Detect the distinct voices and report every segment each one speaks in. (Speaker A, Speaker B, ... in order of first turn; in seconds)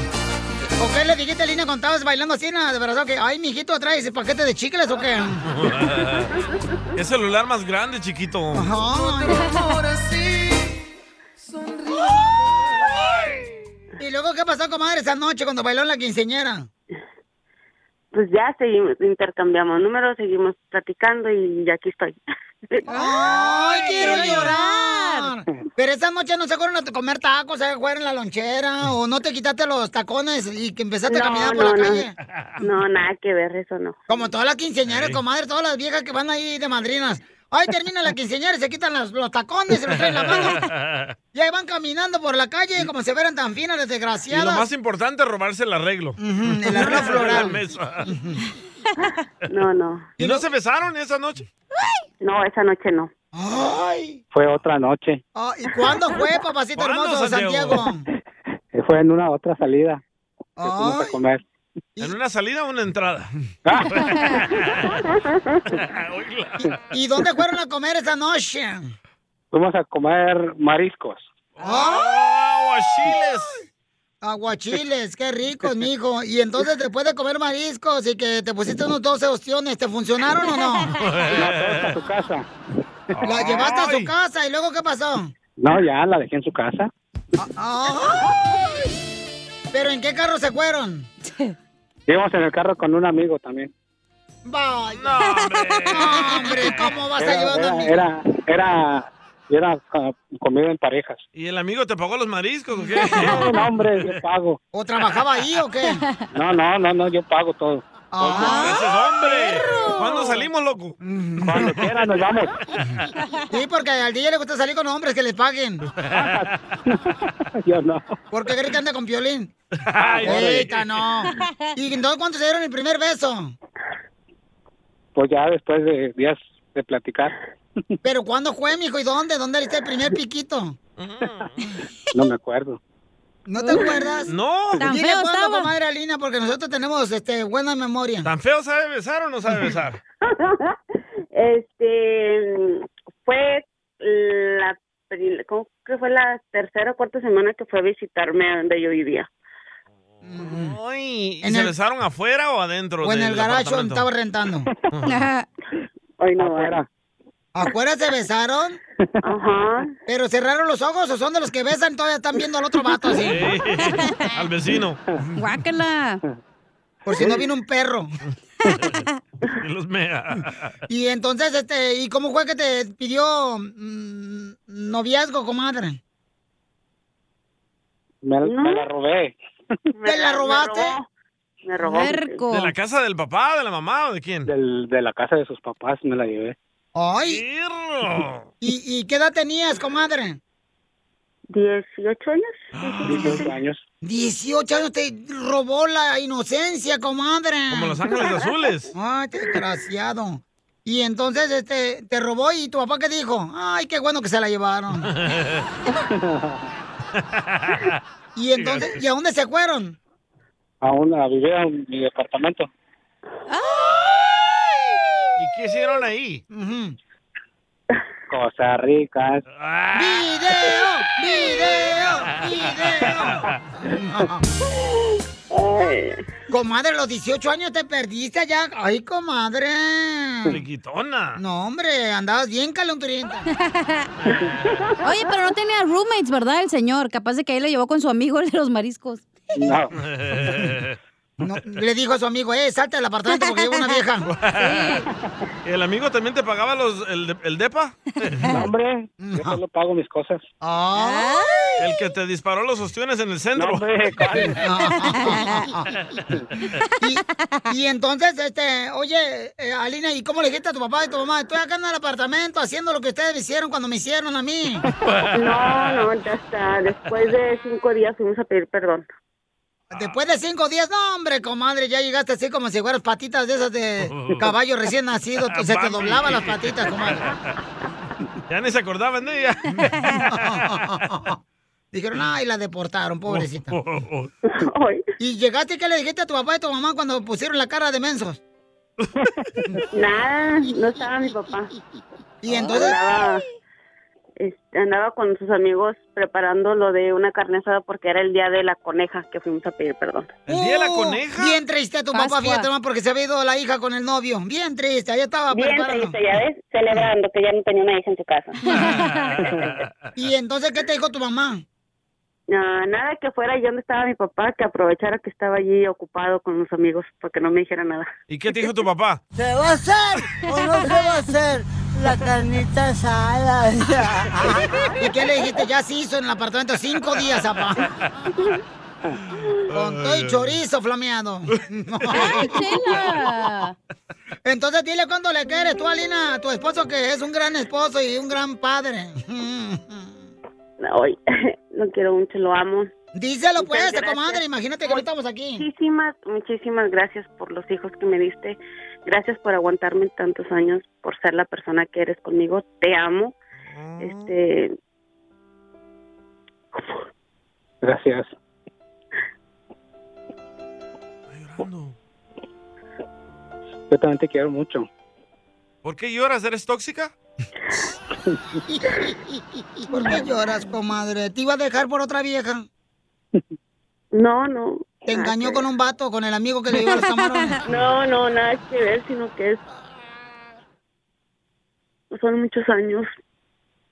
Speaker A: 0.8-5.4, 8.5-9.4, 14.0-16.7, 22.9-32.1, 34.1-40.6, 41.3-44.6, 46.2-48.4, 50.2-50.5, 53.3-54.2, 55.3-58.0, 60.6-61.2, 66.9-68.9, 71.6-72.1, 74.2-81.0, 83.2-85.3, 87.4-88.4, 89.7-91.1, 94.4-95.1, 95.9-98.0, 104.7-106.0, 108.1-108.7, 111.0-111.9, 113.5-115.9, 118.3-119.5, 120.2-123.5, 128.0-130.8, 133.5-134.3, 134.8-138.3, 150.2-150.8, 151.4-151.7, 153.0-154.7, 157.5-158.8, 160.1-163.5, 167.1-168.1, 170.9-176.0, 180.0-180.9, 186.9-187.4, 188.6-190.4, 194.0-198.1, 198.9-205.1, 208.3-210.0, 216.5-216.9, 219.9-224.4, 226.5-230.6, 231.4-233.5, 241.4-244.3, 249.2-249.6, 250.6-251.8, 254.3-255.9, 257.0-264.9, 269.9-277.3, 280.2-281.4, 281.9-283.7, 285.2-288.4, 292.4-293.0, 300.5-306.1, 310.1-311.6, 325.0-327.9, 329.7-332.6, 334.4-340.3, 343.1-345.6, 369.9-372.6, 375.1-377.6
Speaker B: 5.5-6.3, 6.9-8.7, 34.9-35.2, 39.9-41.1, 44.3-48.1, 50.2-51.5, 56.8-57.9, 62.0-63.3, 63.9-65.0, 65.7-66.7, 71.6-73.6, 81.0-81.9, 83.2-84.1, 94.9-96.7, 101.3-103.4, 108.4-111.0, 116.0-116.5, 119.8-121.0, 131.0-131.6, 134.3-134.8, 138.2-140.0, 150.4-154.1, 154.9-155.3, 163.2-165.0, 168.7-170.6, 182.5-184.5, 187.2-188.5, 192.7-193.2, 197.7-198.9, 205.0-205.7, 207.2-208.0, 208.6-209.0, 215.4-216.4, 219.6-220.3, 222.8-223.6, 230.5-231.4, 240.0-240.9, 244.3-245.0, 245.6-248.4, 251.8-253.9, 265.1-265.3, 274.0-274.5, 275.5-277.4, 278.5-280.7, 283.3-284.3, 300.5-301.6, 308.7-309.9, 318.3-319.2, 329.7-330.6, 332.1-332.4, 353.7-354.3, 361.3-361.9, 365.8-367.1
Speaker C: 9.3-9.8, 22.9-25.3, 91.3-91.5, 95.2-96.7, 103.0-103.5, 105.9-106.2, 108.4-110.3, 134.8-135.7, 155.0-155.5, 163.8-164.3, 165.4-166.2, 168.6-169.2, 181.8-182.7, 213.5-214.1, 233.5-234.1, 235.0-239.5, 243.3-244.0, 250.9-251.7, 255.2-255.7, 257.0-257.6, 302.1-302.7, 308.6-309.3, 332.1-333.7, 376.8-377.5
Speaker D: 18.1-22.1, 22.7-23.0, 31.1-32.0, 32.6-34.0, 49.5-50.1, 52.2-53.1, 140.3-140.7, 141.3-149.3, 156.2-156.8, 159.2-159.9, 178.4-178.9, 179.9-181.1, 181.6-182.4, 191.5-193.6, 224.8-226.2, 265.3-269.1, 284.5-285.0, 289.9-291.7, 292.5-293.4, 294.4-300.3, 305.5-308.6, 312.5-318.1, 340.8-342.9, 343.6-353.4, 354.0-354.7, 374.1-375.6, 377.6-379.6, 382.1-383.1
Speaker E: 54.3-55.2, 58.7-60.0, 60.7-61.4, 63.6-64.0, 69.5-71.3, 81.3-82.5, 85.6-86.9, 92.1-93.7, 97.2-101.2, 103.2-104.6, 106.3-108.5, 111.4-112.5, 116.1-118.1, 120.0-120.7, 125.2-127.3, 132.1-132.8, 156.3-156.9, 178.2-179.3, 184.4-186.6, 193.0-193.8, 206.1-206.6, 210.8-212.7, 218.3-219.4, 239.5-239.9, 248.5-250.4, 253.6-254.6, 357.8-358.3, 363.9-364.9
Speaker F: 319.4-324.7